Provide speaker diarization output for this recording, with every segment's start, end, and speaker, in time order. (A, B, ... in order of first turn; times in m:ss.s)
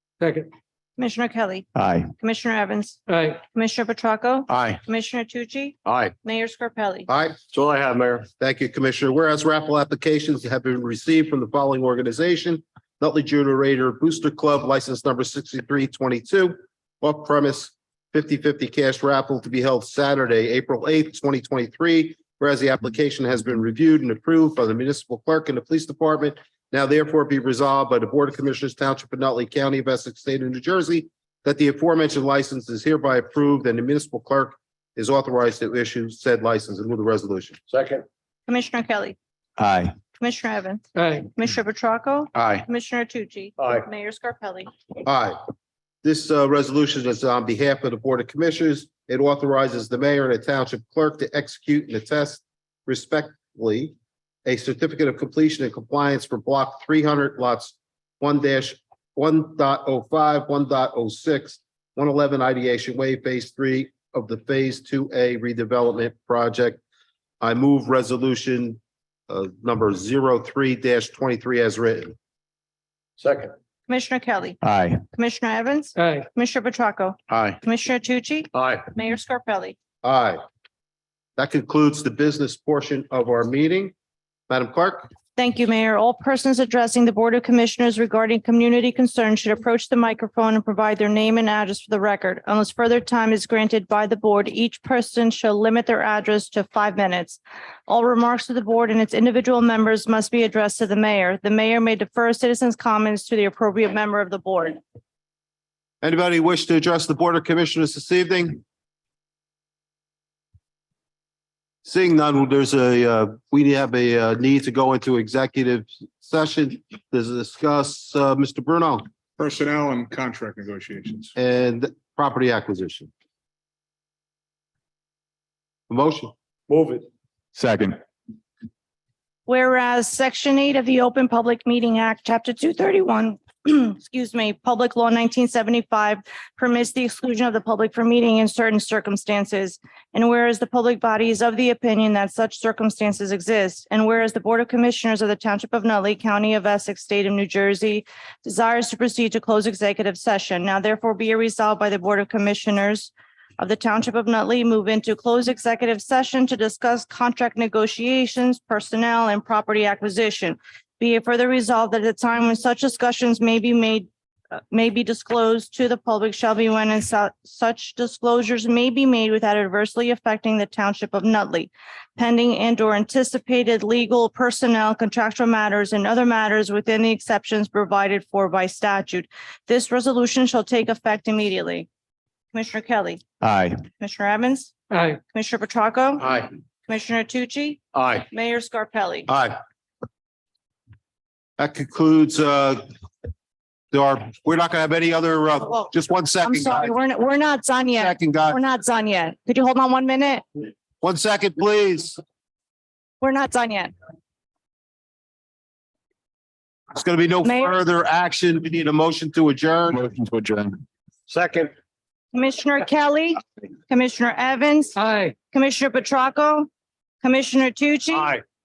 0:00.2-0:00.5 A
0:01.0-0:01.7 B
0:01.8-0:02.1 C
0:02.2-0:07.1 B
0:03.1-0:03.4 A
0:04.5-0:04.8 D
0:05.9-0:06.2 D
0:07.1-0:07.4 E
0:07.5-0:08.3 D
0:08.4-0:37.6 E
0:37.7-0:38.0 D
0:38.5-0:39.2 B
0:39.6-0:40.0 C
0:40.2-0:44.7 B
0:41.0-0:41.3 A
0:43.6-0:43.9 D
0:45.0-0:45.4 E
0:46.0-1:06.8 E
1:07.4-1:12.2 E
1:13.2-1:13.5 D
1:13.9-1:14.6 B
1:14.6-1:15.0 C
1:15.1-1:19.8 B
1:16.0-1:16.3 A
1:17.3-1:17.6 D
1:18.5-1:18.9 D
1:20.0-1:20.4 E
1:21.4-1:23.9 E
1:24.5-1:25.1 E
1:25.4-1:44.8 B
1:46.0-1:48.6 E
1:51.8-1:59.1 E
1:59.4-2:01.3 F
2:01.4-2:03.1 E
2:05.9-2:06.3 E
2:06.7-2:07.1 D
2:07.6-2:08.0 C
2:09.5-3:01.9 B
3:02.5-3:03.2 B
3:03.4-3:03.8 C
3:04.0-3:04.8 B
3:04.9-3:05.2 A
3:05.3-3:06.3 B
3:06.2-3:06.5 D
3:06.9-3:09.3 B
3:07.9-3:08.3 D
3:09.3-3:09.6 E
3:11.6-3:12.8 E
3:13.9-3:16.9 E
3:16.4-3:20.4 B
3:18.0-3:18.6 E
3:21.0-3:22.2 E
3:23.2-3:23.9 B
3:26.9-3:30.0 E
3:27.4-3:27.7 B
3:29.9-3:30.8 C
3:31.3-3:31.7 D
3:32.3-3:35.0 B
3:35.0-3:35.4 A
3:35.5-3:36.7 B
3:37.2-3:38.4 B
3:38.1-3:38.4 D